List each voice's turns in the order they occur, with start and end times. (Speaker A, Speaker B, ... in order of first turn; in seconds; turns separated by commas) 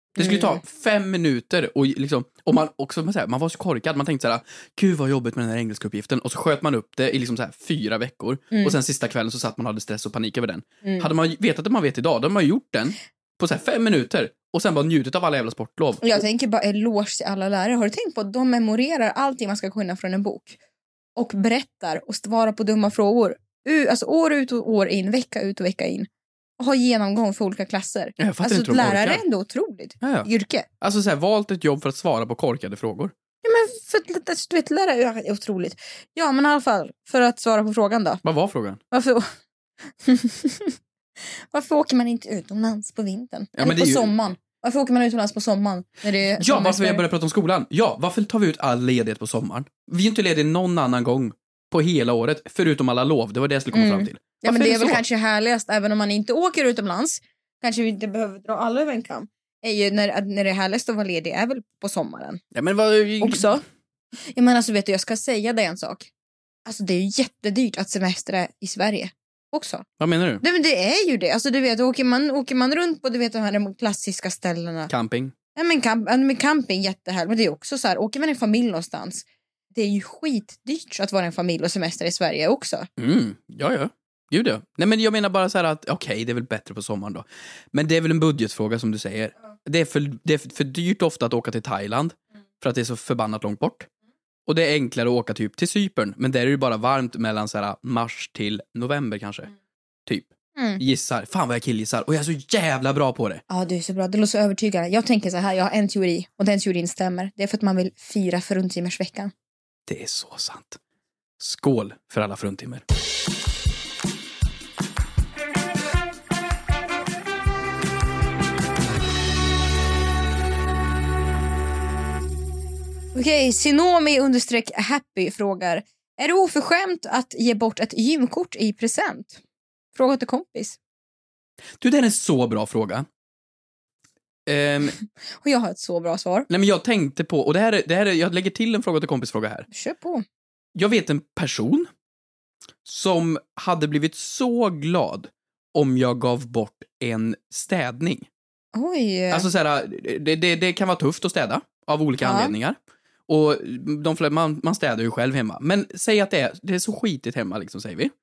Speaker A: 0.2-16.2, Speaker B: 0.2-0.6, Speaker B: 10.8-11.1, Speaker B: 16.0-20.6, Speaker B: 21.1-30.6, Speaker A: 28.2-29.2, Speaker A: 30.0-30.3, Speaker A: 30.8-33.1, Speaker B: 33.4-38.2, Speaker A: 38.2-38.8, Speaker B: 38.9-39.3, Speaker B: 40.0-40.7, Speaker B: 41.5-47.0, Speaker A: 43.5-44.1, Speaker A: 46.4-55.0, Speaker B: 53.7-62.4, Speaker A: 62.5-63.6, Speaker B: 63.2-63.6, Speaker B: 64.3-66.1, Speaker B: 66.7-69.8, Speaker A: 70.0-70.4, Speaker B: 70.4-74.9, Speaker A: 74.9-75.3, Speaker B: 75.5-82.9, Speaker A: 83.0-93.9, Speaker A: 94.5-99.5, Speaker A: 100.1-103.4, Speaker B: 100.5-100.8, Speaker B: 103.5-109.3, Speaker A: 109.9-110.8, Speaker A: 111.4-112.8, Speaker B: 123.1-129.4, Speaker B: 129.9-130.8, Speaker A: 131.8-133.1, Speaker A: 134.5-134.9, Speaker B: 135.4-136.5, Speaker A: 136.5-139.7, Speaker B: 139.7-140.2, Speaker A: 140.8-141.9, Speaker A: 142.8-148.3, Speaker B: 148.7-149.5, Speaker A: 149.3-152.8, Speaker B: 152.2-152.5, Speaker A: 153.3-158.1